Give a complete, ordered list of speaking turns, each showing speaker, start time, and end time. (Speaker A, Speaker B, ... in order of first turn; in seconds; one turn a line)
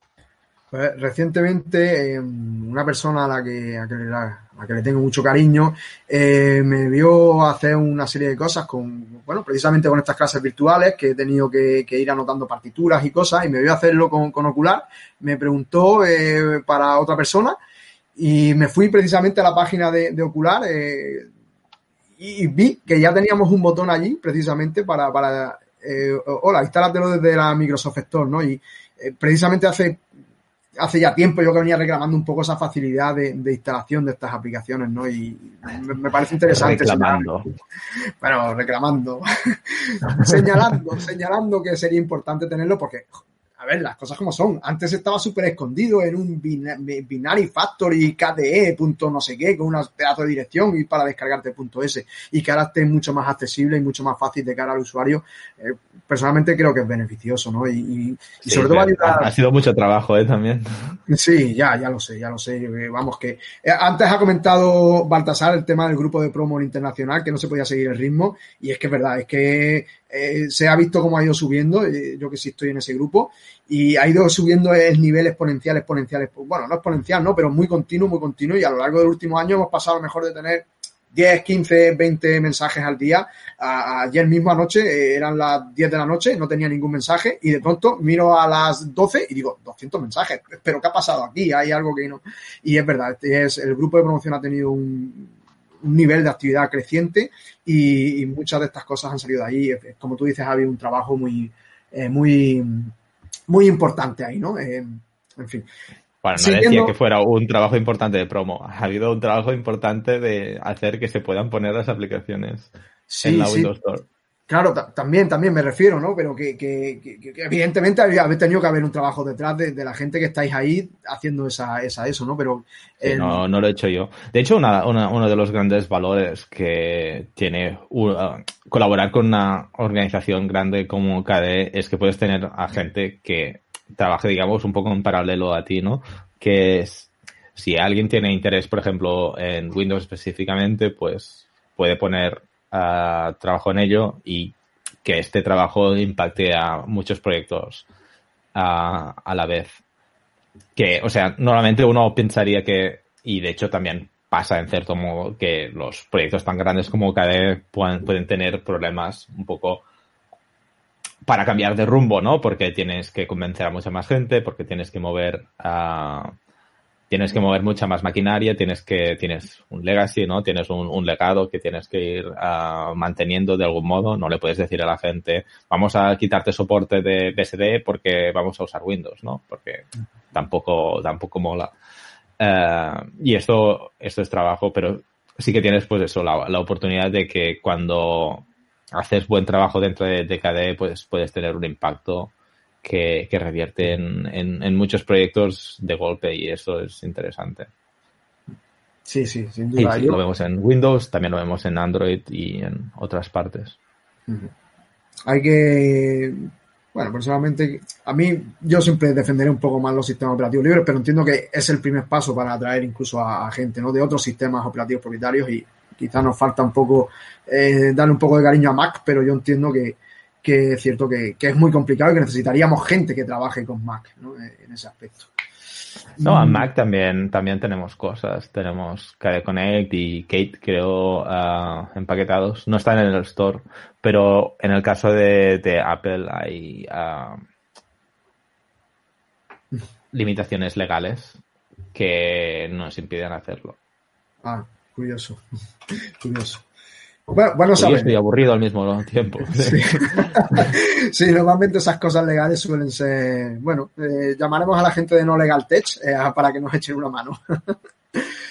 Speaker A: 0.7-17.6
Speaker A: 18.1-21.3
Speaker A: 22.2-30.0
Speaker A: 30.8-37.3
Speaker B: 36.5-37.5
Speaker A: 38.2-59.3
Speaker B: 58.4-61.0
Speaker A: 61.1-102.9
Speaker A: 103.5-105.7
Speaker B: 106.2-112.7
Speaker A: 106.4-106.9
Speaker A: 113.1-113.7
Speaker B: 113.2-114.0
Speaker A: 114.5-123.4
Speaker B: 123.0-147.9
Speaker B: 148.5-149.8
Speaker B: 150.8-159.8
Speaker B: 161.2-166.3
Speaker B: 167.1-181.7
Speaker B: 182.4-192.3
Speaker B: 192.8-197.7
Speaker A: 199.1-200.2
Speaker B: 199.8-203.8
Speaker A: 204.3-204.5
Speaker A: 205.3-225.3
Speaker A: 226.2-226.7
Speaker B: 226.2-237.4
Speaker B: 240.1-241.4
Speaker B: 241.9-243.8
Speaker A: 244.4-246.6
Speaker A: 247.3-248.1
Speaker B: 247.7-250.7
Speaker A: 249.6-258.3